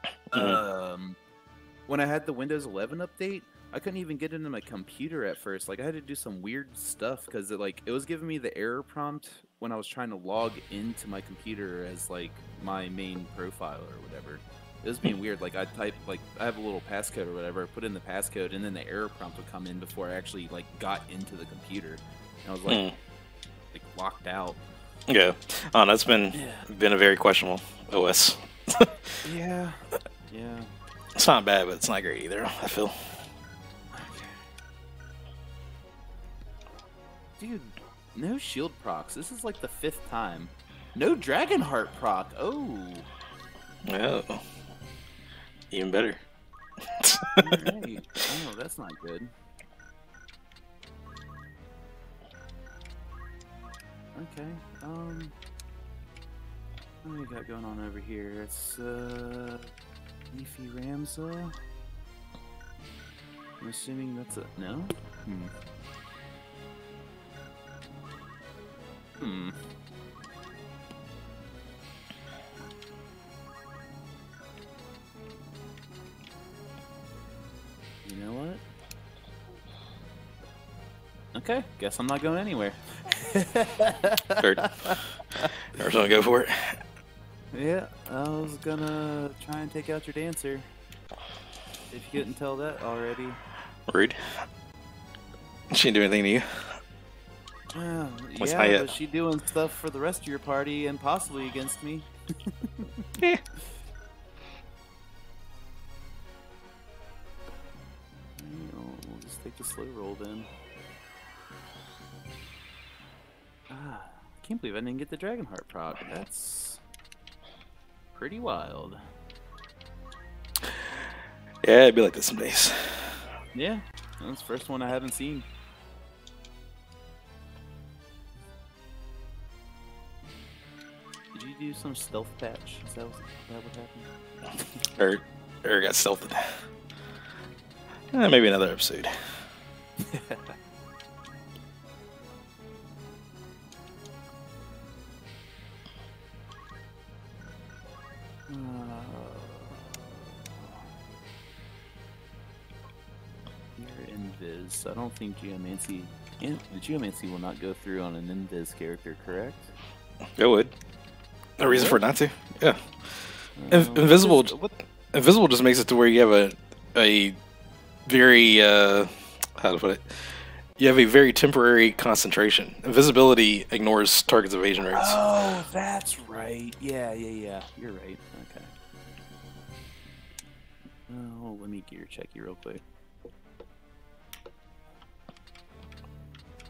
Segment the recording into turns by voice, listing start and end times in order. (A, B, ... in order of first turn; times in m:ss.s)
0:00.3-0:00.6 A
0:00.3-0:01.2 B
0:01.9-0:22.9 B
0:22.7-0:23.0 A
0:23.7-0:24.6 B
0:25.1-0:29.2 A
0:26.3-0:26.7 B
0:29.2-0:30.7 B
0:31.2-0:33.2 A
0:33.9-0:34.4 B
0:37.4-0:43.1 B
0:43.9-0:44.4 A
0:45.7-0:46.2 A
0:46.8-0:47.7 A
0:47.4-0:49.3 B
0:54.2-0:55.4 B
0:57.0-0:59.7 B
1:00.3-1:01.6 B
1:03.6-1:05.5 B
1:09.2-1:09.6 B
1:18.0-1:18.6 B
1:21.3-1:25.8 B
1:24.4-1:24.7 A
1:25.7-1:26.8 A
1:27.5-1:30.7 B
1:31.9-1:33.4 B
1:33.9-1:34.4 A
1:35.7-1:36.8 A
1:37.7-1:43.1 B
1:38.4-1:38.9 A
1:48.4-1:50.5 B
1:53.7-1:56.8 B
1:58.1-1:59.0 B
2:00.6-2:01.1 A
2:01.6-2:03.3 A
2:03.5-2:05.5 B
2:11.3-2:14.6 B
2:15.0-2:16.7 A
2:18.1-2:19.4 A
2:20.0-2:20.5 B
2:28.5-2:30.8 B
2:33.8-2:39.7 B
2:40.4-2:40.7 A
2:41.6-2:44.6 A
2:41.7-2:42.0 B
2:43.6-2:44.8 B
2:45.1-2:47.4 A
2:48.1-2:55.2 A
2:54.8-2:58.7 B
3:01.1-3:02.8 B